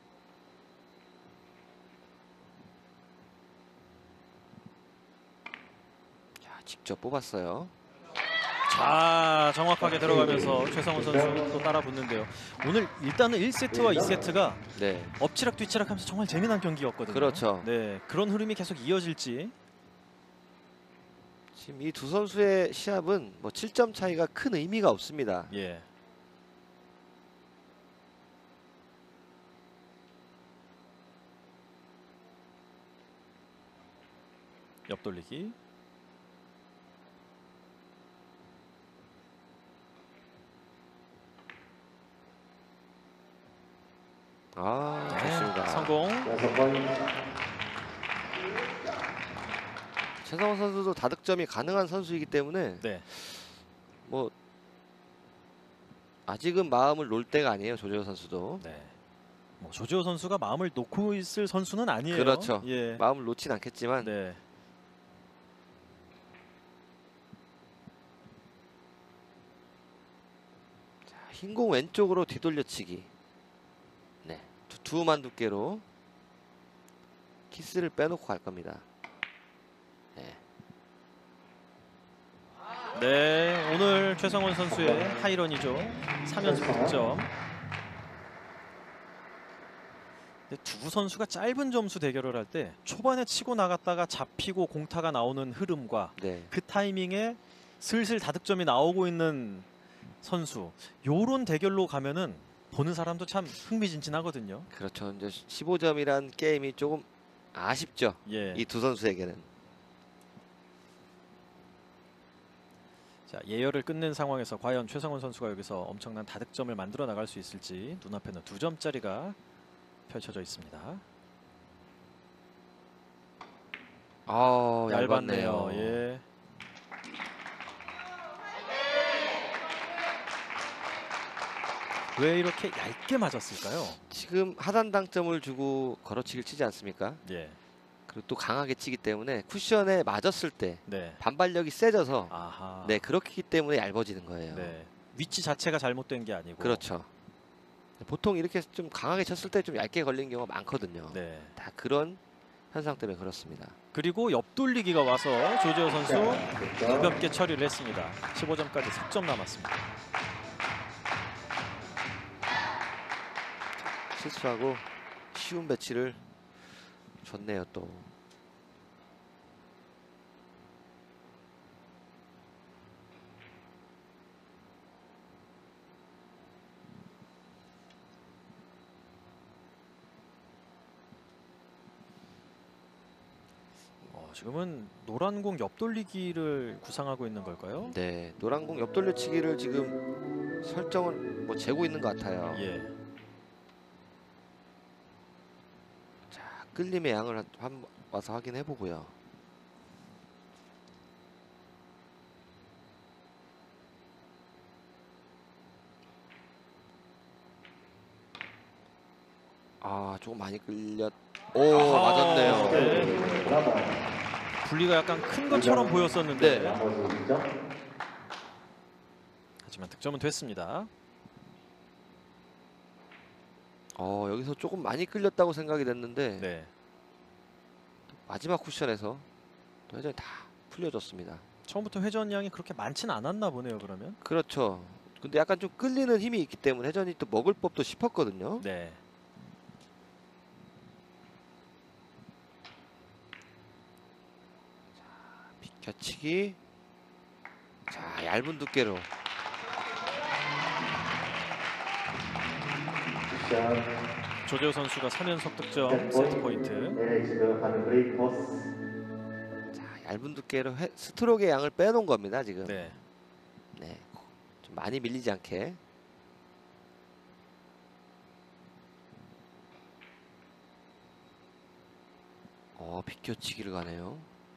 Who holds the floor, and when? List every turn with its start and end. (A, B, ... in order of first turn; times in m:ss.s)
0:06.4-0:07.8 A
0:08.7-0:14.6 B
0:09.8-0:11.5 C
0:13.7-0:14.2 C
0:14.7-0:15.2 A
0:15.2-0:19.6 B
0:17.1-0:17.7 A
0:21.5-0:25.5 A
0:25.5-0:25.9 B
0:34.9-0:35.6 B
0:44.5-0:46.0 A
0:45.1-0:46.3 B
0:46.2-0:46.9 C
0:50.2-0:53.5 A
0:52.8-0:53.1 B
0:54.0-0:54.3 A
0:56.3-0:58.6 A
0:58.6-0:58.9 B
0:59.6-1:03.0 B
1:02.1-1:04.1 A
1:04.0-1:04.4 B
1:11.0-1:13.1 A
1:14.2-1:15.8 A
1:17.5-1:18.8 A
1:20.2-1:20.4 A
1:23.0-1:27.3 B
1:24.7-1:25.2 C
1:26.4-1:27.0 C
1:30.5-1:39.7 B
1:36.2-1:36.5 A
1:40.2-1:44.7 B
1:44.7-1:49.5 A
1:48.2-1:48.7 B
1:53.3-1:59.4 B
2:00.1-2:01.0 B
2:04.3-2:06.0 A
2:04.9-2:06.2 B
2:12.2-2:14.0 B
2:14.1-2:17.2 A
2:17.2-2:17.6 B
2:18.1-2:24.8 A
2:20.9-2:21.2 B
2:22.3-2:23.0 B
2:24.5-2:26.8 B
2:26.6-2:27.1 A
2:28.0-2:32.2 A
2:31.1-2:31.6 B
2:32.7-2:33.8 A
2:33.9-2:39.9 B
2:35.9-2:37.1 C
2:44.1-2:46.2 A
2:47.2-2:48.1 A
3:04.1-3:08.0 B
3:07.8-3:10.0 A
3:10.6-3:12.7 A
3:12.5-3:12.9 B
3:16.3-3:19.1 A
3:29.8-3:33.3 A
3:31.7-3:33.2 B
3:32.5-3:34.0 C
3:34.6-3:36.8 B
3:35.5-3:37.5 C
3:36.4-3:36.8 A
3:39.6-3:40.9 B
3:44.0-3:46.5 A
3:46.4-3:46.7 B
3:48.2-3:49.3 A
3:49.9-3:51.4 A
3:51.7-3:54.2 B
3:54.2-3:58.6 A
3:58.6-3:59.0 B
4:05.6-4:06.6 A
4:07.9-4:09.1 A
4:13.3-4:13.8 C
4:14.4-4:17.0 B
4:15.8-4:16.4 C
4:16.9-4:18.7 C
4:19.7-4:22.8 A
4:22.6-4:23.0 B
4:23.8-4:25.8 A
4:32.8-4:34.3 A